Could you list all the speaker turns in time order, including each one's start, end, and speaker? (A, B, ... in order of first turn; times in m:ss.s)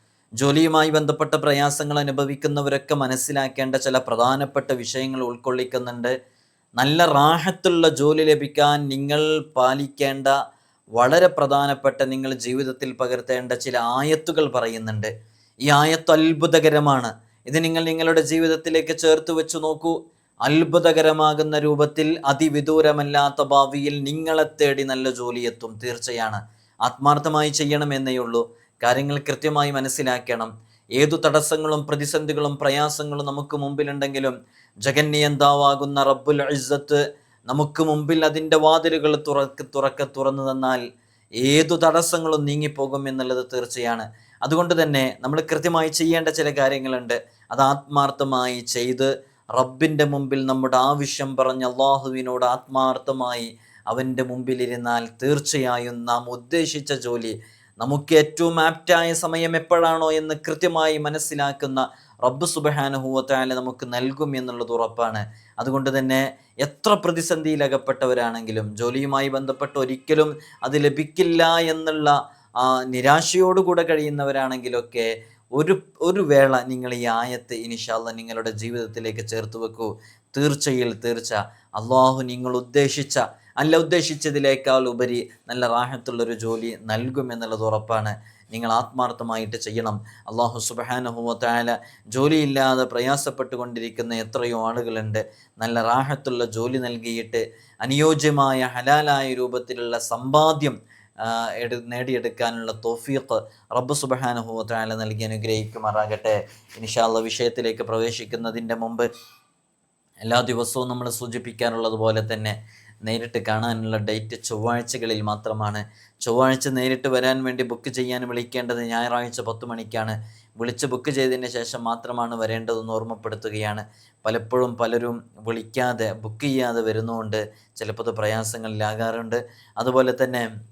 0:00.4-0:06.2 A
0:06.8-0:10.3 A
0:11.0-0:15.1 A
0:15.7-0:40.8 A
0:41.4-1:49.1 A
1:50.2-1:52.5 A
1:53.1-2:10.4 A